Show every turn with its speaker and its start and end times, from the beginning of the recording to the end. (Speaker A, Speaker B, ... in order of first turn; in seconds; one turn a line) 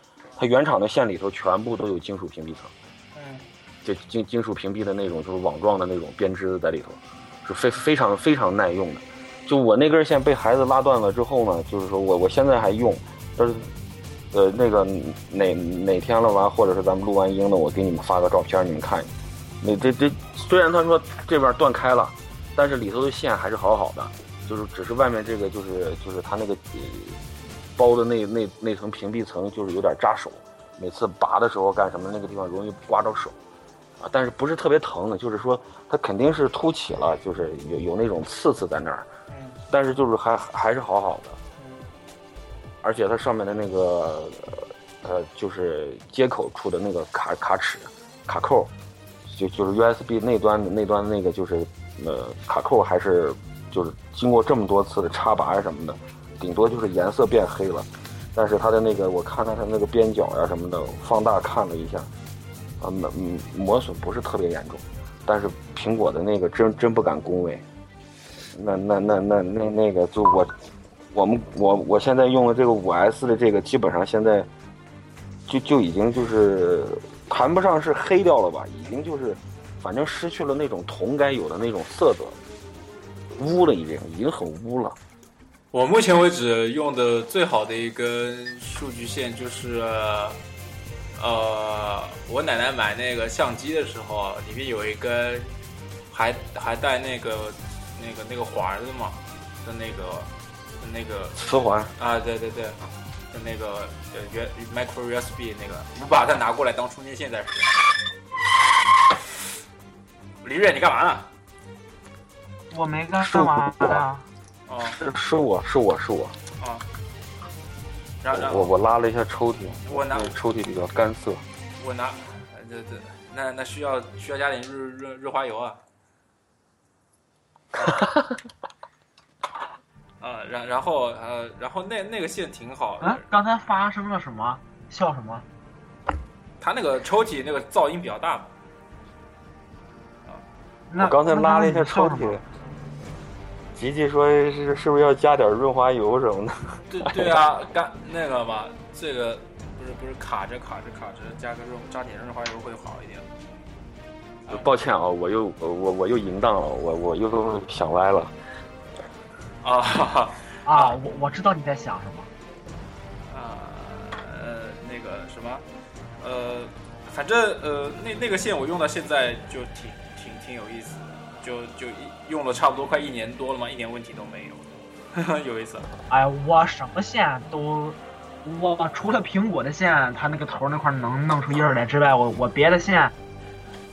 Speaker A: 0.4-2.7
Speaker B: 3.1-3.5
Speaker A: 3.8-13.7
Speaker A: 14.3-27.2
Speaker A: 27.8-33.4
Speaker A: 34.0-39.1
Speaker B: 39.3-39.6
Speaker A: 39.7-41.4
Speaker B: 41.6-41.9
Speaker A: 42.8-48.7
Speaker A: 49.2-62.1
Speaker A: 62.8-67.6
Speaker A: 68.5-70.5
Speaker A: 71.1-74.5
Speaker A: 75.5-82.4
Speaker A: 83.3-85.0
Speaker B: 85.7-90.4
Speaker B: 91.2-95.5
Speaker B: 96.1-101.4
Speaker A: 101.3-101.9
Speaker B: 102.0-102.8
Speaker B: 103.3-108.0
Speaker B: 110.4-111.3
Speaker C: 112.7-114.3
Speaker A: 113.2-114.0
Speaker B: 114.7-115.0
Speaker A: 114.9-116.3
Speaker B: 116.6-116.8
Speaker B: 118.2-118.7
Speaker A: 118.3-121.4
Speaker B: 119.9-120.3
Speaker B: 121.8-125.8
Speaker B: 130.2-133.2
Speaker C: 133.0-135.4
Speaker B: 136.6-138.5
Speaker C: 140.9-142.4
Speaker A: 141.0-142.4
Speaker A: 143.7-147.4
Speaker B: 146.9-153.3
Speaker A: 154.5-158.3
Speaker B: 159.6-160.9
Speaker C: 160.7-162.3
Speaker B: 163.3-165.6
Speaker B: 166.2-175.9
Speaker C: 176.1-183.1